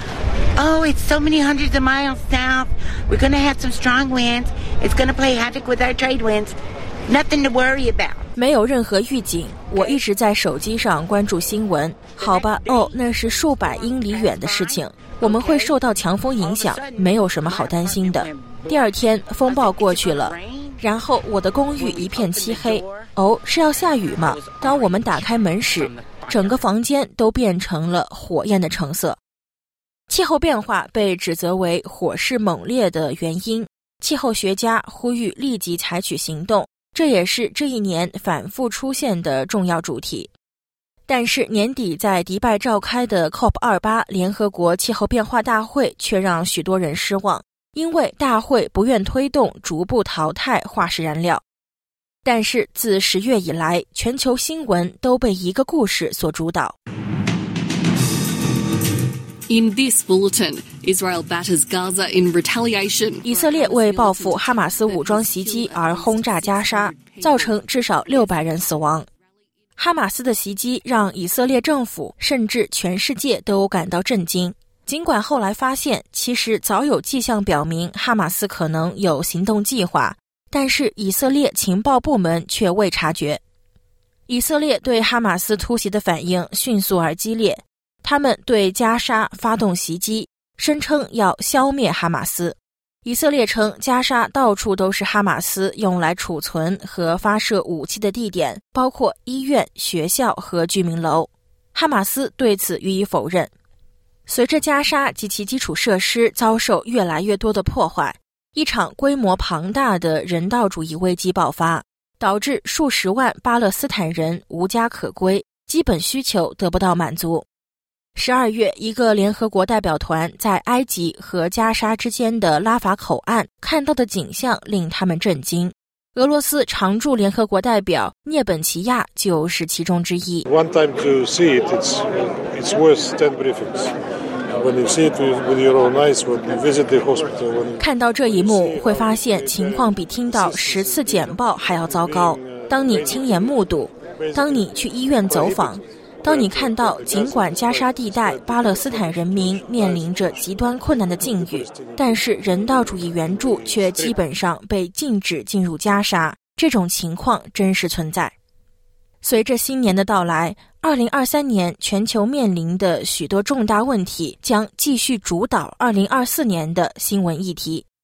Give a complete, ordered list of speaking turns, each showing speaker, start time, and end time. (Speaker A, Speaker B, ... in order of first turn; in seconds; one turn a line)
Speaker A: 0.6-8.2
Speaker B: 8.4-29.2
Speaker A: 9.7-10.0
Speaker A: 12.1-15.8
Speaker A: 16.4-18.8
Speaker A: 19.4-20.8
Speaker A: 21.7-23.1
Speaker A: 24.1-26.6
Speaker B: 30.1-40.3
Speaker B: 41.1-51.4
Speaker B: 52.2-56.8
Speaker C: 59.5-69.0
Speaker B: 63.2-69.1
Speaker B: 69.8-83.4
Speaker B: 84.3-103.5
Speaker B: 104.3-117.5
Speaker B: 118.2-130.5
Speaker D: 130.5-133.9
Speaker D: 134.6-139.7
Speaker B: 137.8-158.3
Speaker D: 140.3-141.3
Speaker D: 142.0-143.3
Speaker D: 144.2-144.5
Speaker D: 145.3-150.3
Speaker D: 151.4-152.0
Speaker D: 153.4-154.1
Speaker B: 159.2-167.9